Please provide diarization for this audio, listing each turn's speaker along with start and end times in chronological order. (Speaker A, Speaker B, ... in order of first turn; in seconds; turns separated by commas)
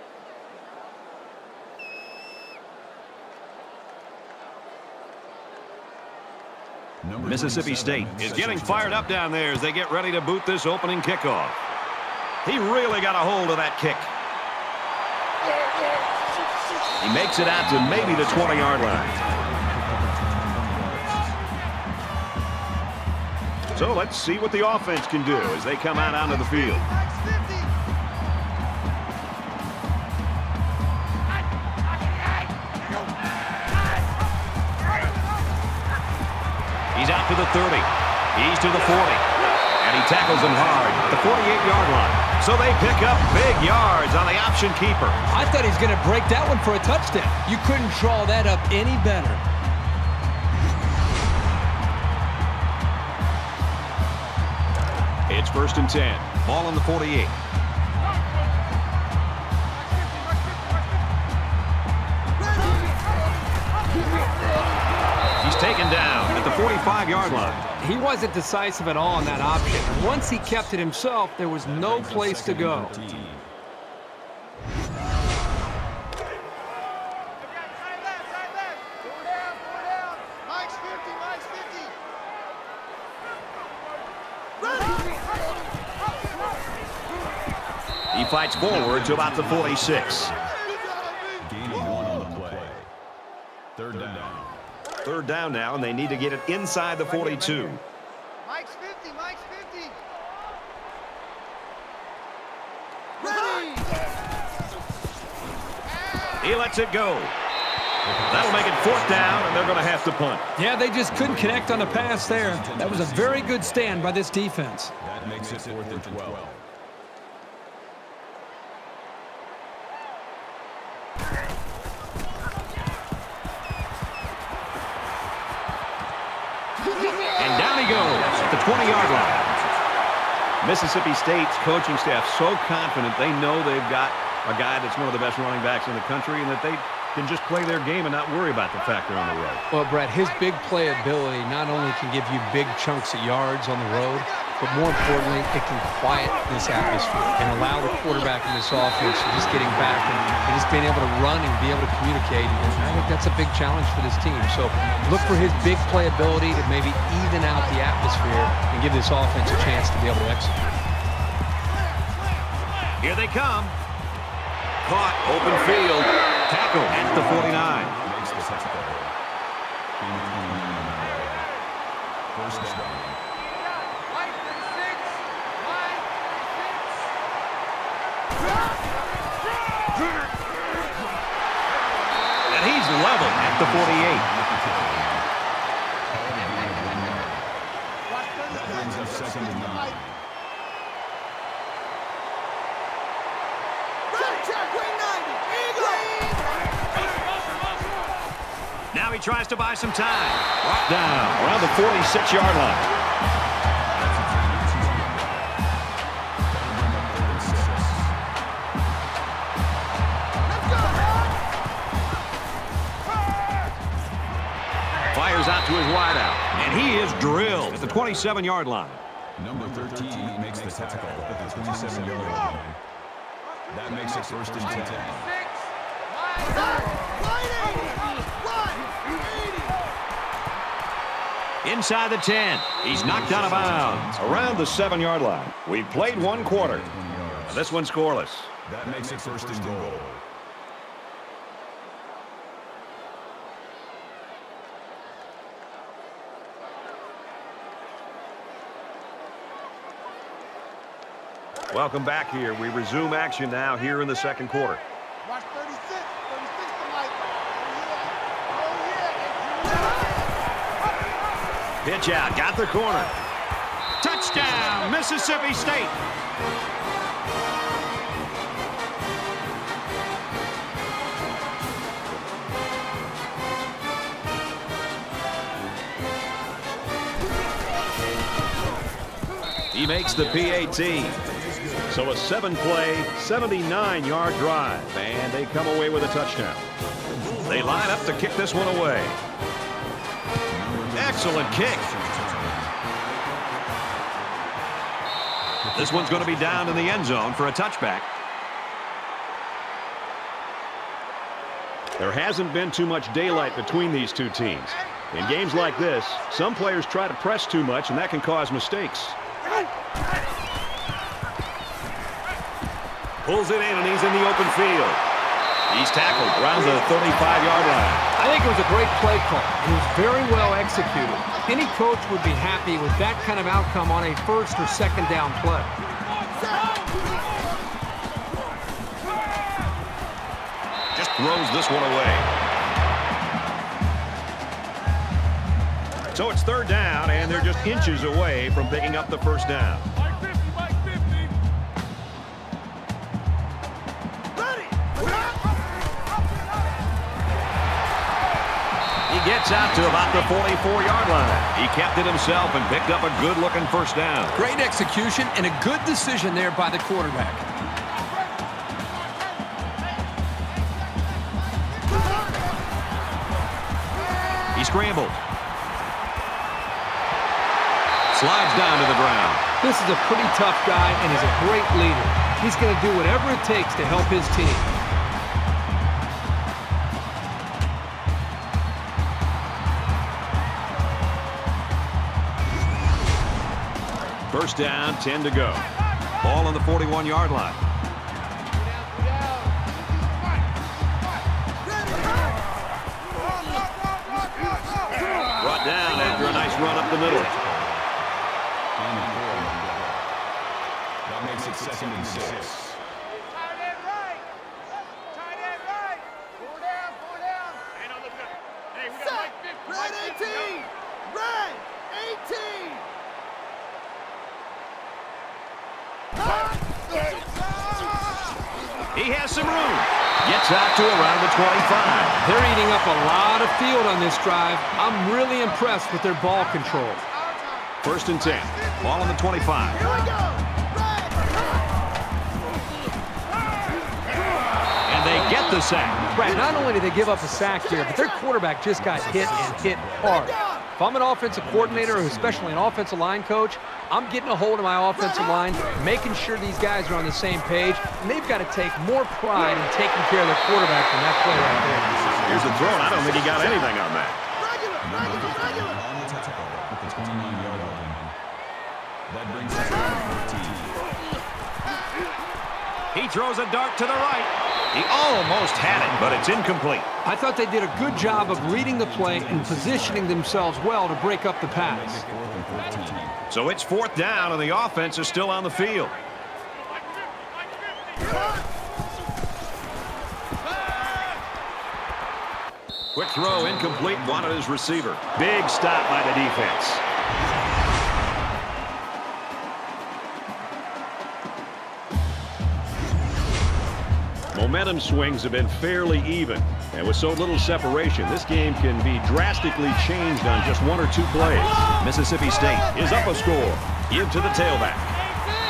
Speaker A: 7.0-9.2, Speaker B: 7.2-11.6, Speaker B: 12.4-14.1, Speaker B: 17.0-19.1, Speaker A: 19.1-21.3, Speaker B: 23.7-26.8, Speaker B: 36.9-39.2, Speaker B: 39.8-45.2, Speaker C: 45.3-49.4, Speaker B: 55.3-57.4, Speaker B: 65.4-67.6, Speaker A: 67.2-67.9, Speaker C: 67.8-73.0, Speaker A: 70.1-70.4, Speaker A: 71.6-73.5, Speaker B: 88.1-90.3, Speaker A: 88.8-89.9, Speaker A: 91.4-92.9, Speaker A: 93.8-94.6, Speaker B: 95.0-97.8, Speaker D: 98.5-99.9, Speaker D: 103.2-103.8, Speaker B: 106.4-107.3, Speaker A: 108.0-109.8, Speaker B: 108.2-110.5, Speaker C: 110.6-114.9, Speaker A: 111.2-114.1, Speaker A: 115.0-116.6, Speaker B: 127.3-129.5, Speaker A: 128.2-129.6, Speaker B: 130.6-139.6, Speaker C: 139.7-160.8, Speaker A: 149.5-150.4, Speaker B: 163.0-163.8, Speaker B: 164.8-168.0, Speaker A: 168.0-169.1, Speaker A: 170.0-171.5, Speaker A: 172.3-173.2, Speaker C: 174.3-175.0, Speaker B: 182.5-184.2, Speaker A: 183.3-185.3, Speaker A: 186.1-187.5, Speaker A: 188.3-190.2, Speaker B: 198.9-202.9, Speaker A: 203.9-205.5, Speaker A: 206.5-208.1, Speaker B: 215.1-219.0, Speaker A: 217.2-217.9, Speaker A: 219.4-222.8, Speaker A: 223.7-225.3, Speaker C: 226.4-226.7, Speaker B: 231.6-236.9, Speaker A: 232.9-234.8, Speaker A: 236.1-237.6, Speaker B: 237.5-238.6, Speaker A: 238.7-240.2, Speaker B: 251.7-254.8, Speaker B: 261.8-263.1, Speaker B: 264.0-266.0, Speaker B: 279.7-281.2, Speaker A: 281.3-281.9, Speaker B: 281.9-286.7, Speaker B: 287.3-289.2, Speaker A: 290.5-292.7, Speaker B: 290.9-291.9, Speaker B: 295.7-298.1, Speaker A: 295.9-296.6, Speaker B: 302.0-309.2, Speaker B: 313.2-315.0, Speaker B: 315.7-318.1, Speaker C: 318.1-325.7, Speaker B: 330.9-332.3, Speaker B: 336.1-339.9, Speaker B: 349.1-354.4, Speaker C: 354.4-357.4, Speaker B: 364.5-365.2, Speaker B: 368.1-369.4, Speaker C: 369.6-374.7, Speaker B: 384.3-387.6, Speaker B: 395.4-397.3, Speaker A: 397.4-397.7, Speaker A: 398.8-400.0, Speaker A: 401.1-402.8, Speaker C: 409.4-409.7, Speaker B: 418.9-422.2, Speaker C: 422.2-427.1, Speaker B: 427.8-429.9, Speaker B: 434.9-436.1, Speaker C: 436.1-451.9, Speaker A: 439.0-440.1, Speaker A: 441.4-442.5, Speaker A: 451.3-453.1, Speaker B: 452.2-454.2, Speaker A: 454.7-458.1, Speaker A: 459.1-460.8, Speaker B: 462.9-466.9, Speaker C: 467.0-472.1, Speaker A: 468.4-470.3, Speaker A: 471.6-473.2, Speaker B: 473.3-476.0, Speaker B: 482.9-486.8, Speaker B: 494.3-504.9